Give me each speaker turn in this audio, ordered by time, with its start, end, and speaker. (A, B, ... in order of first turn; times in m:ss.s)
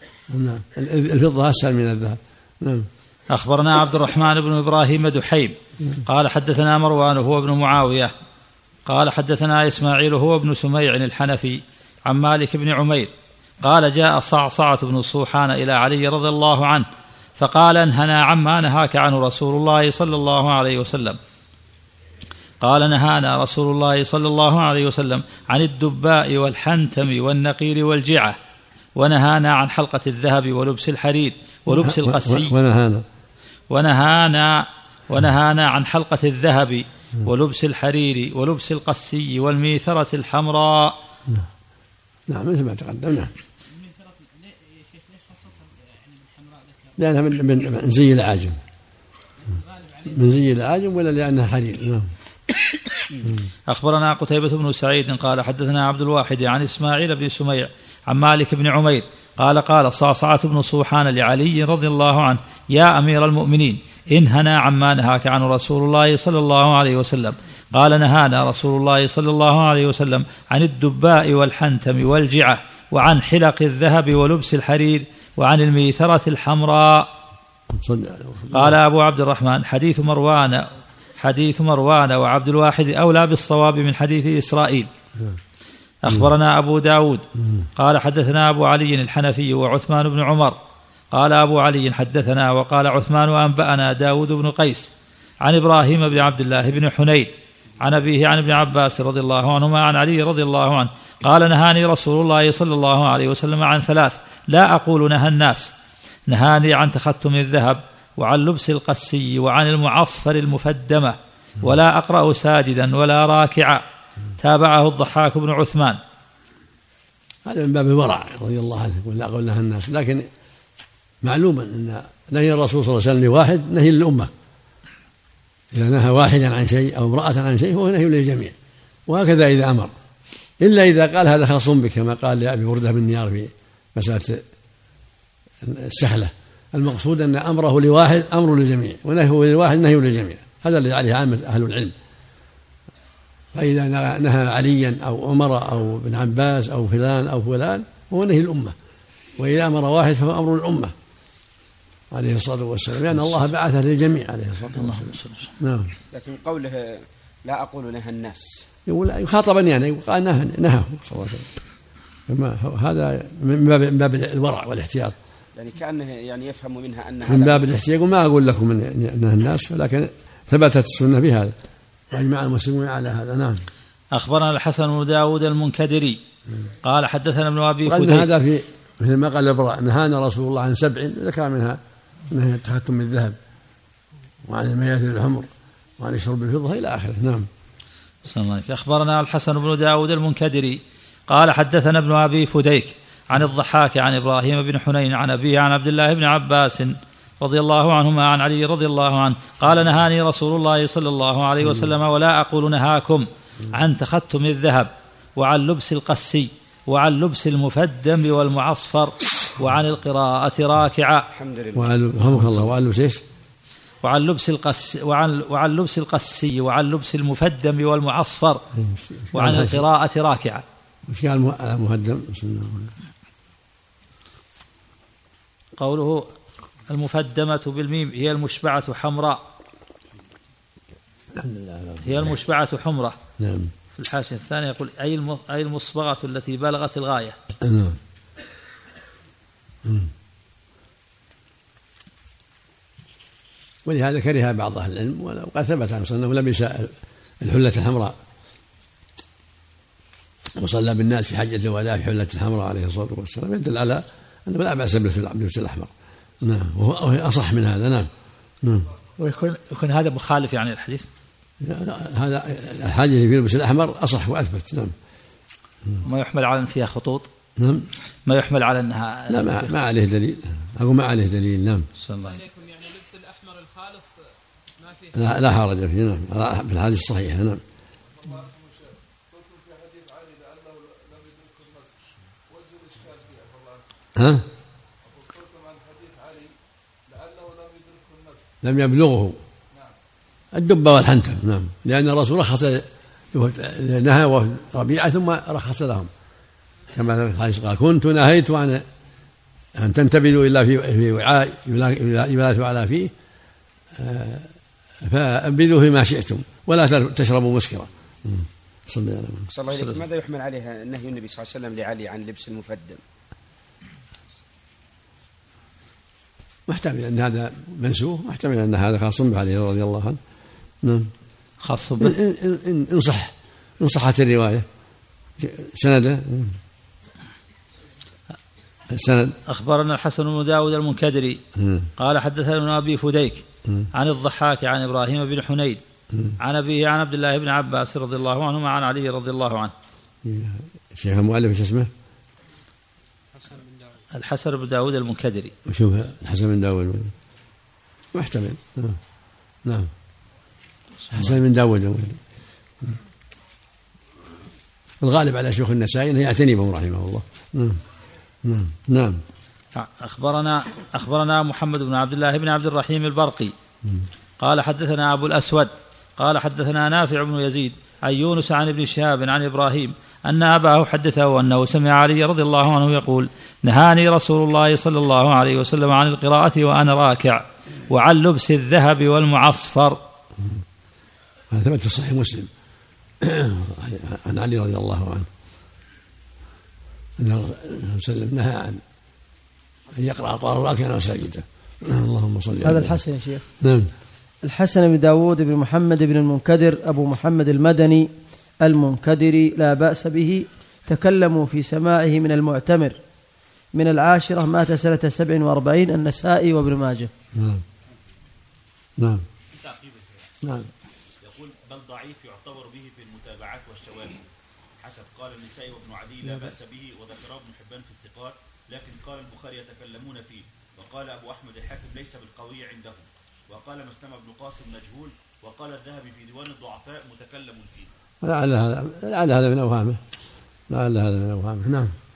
0:00.3-0:02.9 A
0:03.3-0:05.6 B
0:06.1-0:08.1 B
0:08.9-0:13.1 B
0:13.6-0:16.9 B
0:17.4-0:21.2 B
0:22.6-0:28.4 B
0:29.0-0:32.5 B
0:31.7-0:33.0 A
0:33.7-0:40.9 B
0:42.3-0:43.3 A
0:43.7-0:47.0 C
0:47.0-0:48.6 A
0:49.5-0:50.2 C
0:50.1-0:52.1 A
0:53.7-1:17.1 B
1:17.7-1:18.8 A
1:18.5-1:24.9 B
1:26.0-1:27.2 B
1:27.4-1:27.7 A
1:27.8-1:30.6 B
1:31.1-1:34.9 B
1:35.4-1:37.3 B
1:37.8-1:45.7 B
1:46.3-1:53.8 B
1:54.4-1:56.0 B
1:57.5-2:00.3 A
2:01.2-2:04.3 A
2:05.7-2:08.6 A
2:09.1-2:09.9 A
2:10.6-2:14.4 A
2:15.6-2:22.0 A
2:23.5-2:28.8 A
2:29.4-2:30.9 A
2:32.1-2:35.9 A
2:34.8-2:35.5 B
2:36.1-2:38.7 D
2:38.9-2:41.5 A
2:42.3-2:45.2 A
2:45.6-2:47.7 D
2:47.2-2:51.6 A
2:52.1-2:53.7 A
2:54.1-2:56.2 B
2:56.8-2:58.3 B
2:57.8-3:03.4 A
3:04.5-3:07.5 A
3:08.3-3:31.3 B
3:31.4-3:32.4 D
3:31.7-3:33.2 A
3:34.0-3:38.6 B
3:38.8-3:39.8 A
3:39.3-3:40.6 B
3:41.1-3:42.9 A
3:45.8-3:46.3 B
3:46.9-3:49.4 B
3:51.4-3:52.4 A
3:52.0-3:53.2 B
3:53.4-3:53.7 A
3:54.0-3:57.4 B
3:57.6-3:58.0 A
3:59.8-4:00.1 A
4:03.8-4:08.2 A
4:10.6-4:18.1 A
4:18.6-4:18.9 A
4:19.2-4:21.1 B
4:21.6-4:24.9 A
4:26.0-4:27.3 B
4:27.6-4:27.9 A
4:28.3-4:29.7 B
4:29.3-4:31.9 A
4:32.0-4:32.4 B
4:32.2-4:34.2 C
4:34.8-4:35.3 C
4:35.1-4:37.6 A
4:38.2-4:38.6 C
4:44.2-4:44.5 A
4:48.6-4:49.4 A
4:50.5-4:56.1 A
4:56.9-4:58.8 A
4:59.8-5:03.1 A
5:04.0-5:09.5 A
5:09.5-5:13.0 D
5:16.7-5:20.2 A
5:20.8-5:21.1 A
5:21.6-5:22.2 B
5:22.0-5:24.7 A
5:25.4-5:26.6 A
5:28.9-5:29.3 A
5:29.5-5:31.4 B
5:31.6-5:31.9 A
5:32.0-5:35.8 B
5:33.6-5:33.9 A
5:36.1-5:36.4 A
5:36.4-5:39.7 B
5:40.2-5:41.9 A
5:43.4-5:44.0 C
5:44.1-5:45.5 B
5:45.7-5:47.1 A
5:48.1-5:49.0 A
5:49.6-5:49.9 A
5:51.1-5:52.2 A
5:55.0-5:57.8 A
5:58.4-5:59.2 A
5:59.8-6:03.5 B
6:04.4-6:20.0 B
6:21.5-6:22.5 A
6:23.2-6:25.3 A
6:27.2-6:28.8 A
6:29.9-6:33.0 A
6:32.6-6:33.4 E
6:33.6-6:33.9 A
6:34.4-6:38.1 E
6:38.6-6:43.0 E
6:43.7-6:47.1 E
6:47.4-6:47.6 A
6:49.0-6:49.3 A
6:49.5-6:50.4 F
6:50.4-6:50.7 A
6:51.2-7:07.9 F
7:08.2-7:10.0 A
7:10.7-7:12.0 A